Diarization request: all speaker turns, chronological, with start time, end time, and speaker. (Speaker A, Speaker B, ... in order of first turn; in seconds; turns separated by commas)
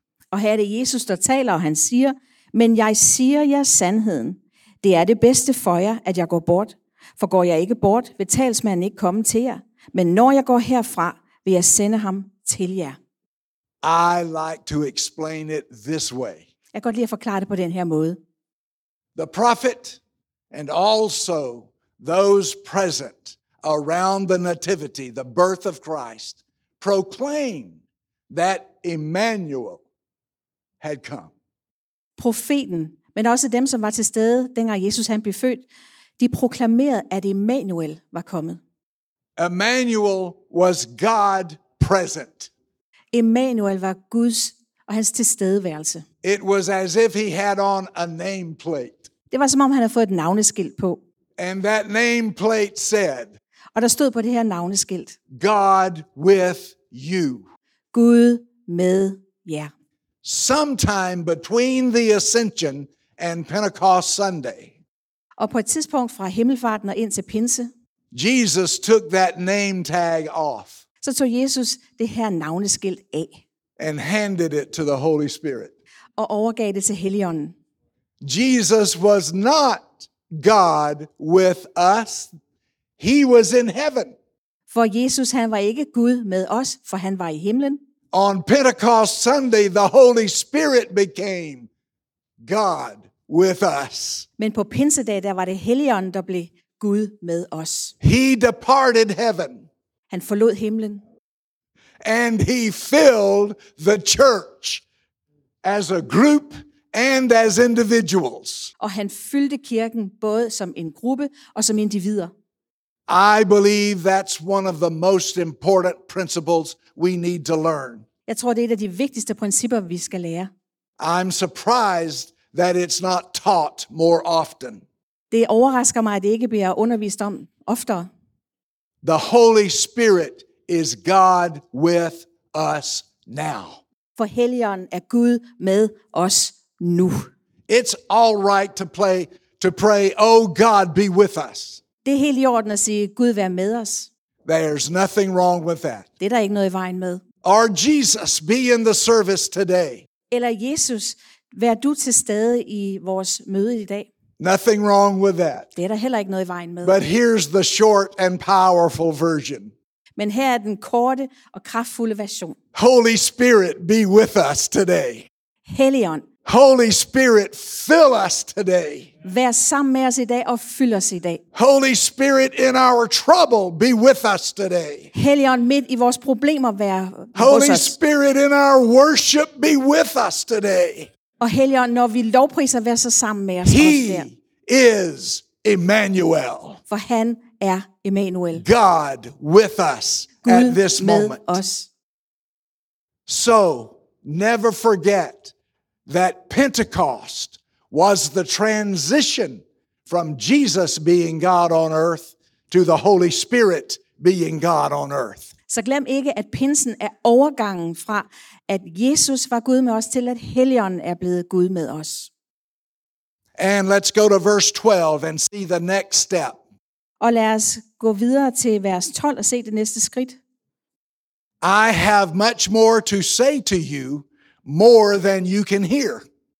Speaker A: 0.3-13.0, Speaker B: 13.8-16.5, Speaker A: 16.7-18.2, Speaker B: 19.1-20.0, Speaker B: 20.5-27.8, Speaker B: 28.3-29.8, Speaker B: 30.8-31.3, Speaker A: 32.2-35.6, Speaker A: 36.2-38.6, Speaker B: 39.4-42.5, Speaker A: 43.1-46.0, Speaker B: 46.2-49.1, Speaker A: 49.3-51.0, Speaker B: 51.4-53.4, Speaker A: 53.8-55.1, Speaker B: 55.3-57.5, Speaker A: 57.9-59.7, Speaker B: 60.2-64.7, Speaker A: 65.4-67.7, Speaker B: 68.1-70.8, Speaker A: 71.0-73.4, Speaker B: 73.8-75.7, Speaker A: 76.2-77.5, Speaker B: 78.2-82.3, Speaker B: 83.0-84.2, Speaker A: 84.7-87.8, Speaker B: 88.1-91.7, Speaker B: 92.4-94.3, Speaker A: 94.4-97.9, Speaker B: 98.0-99.7, Speaker A: 100.1-101.0, Speaker B: 102.0-104.8, Speaker B: 105.6-108.7, Speaker A: 108.8-112.3, Speaker B: 113.1-118.1, Speaker A: 118.3-120.5, Speaker B: 121.0-124.8, Speaker A: 125.3-128.1, Speaker B: 129.0-133.8, Speaker A: 134.2-137.3, Speaker B: 137.7-141.8, Speaker A: 142.1-144.1, Speaker B: 144.4-146.1, Speaker A: 146.2-147.2, Speaker B: 147.4-150.1, Speaker A: 150.3-154.1, Speaker B: 154.4-155.7, Speaker A: 155.8-157.0, Speaker B: 156.8-159.7, Speaker A: 160.2-162.6, Speaker B: 162.7-165.3, Speaker A: 165.7-166.3, Speaker B: 166.5-169.1, Speaker A: 169.2-171.4, Speaker B: 171.5-175.1, Speaker A: 175.1-178.0, Speaker B: 177.3-181.1, Speaker A: 181.4-184.3, Speaker B: 183.6-186.8, Speaker A: 186.9-188.6, Speaker B: 188.6-191.6, Speaker A: 190.4-191.9, Speaker B: 193.3-195.5, Speaker B: 196.1-205.5, Speaker A: 205.7-212.3, Speaker B: 213.6-216.6, Speaker A: 217.2-220.4, Speaker B: 221.6-226.3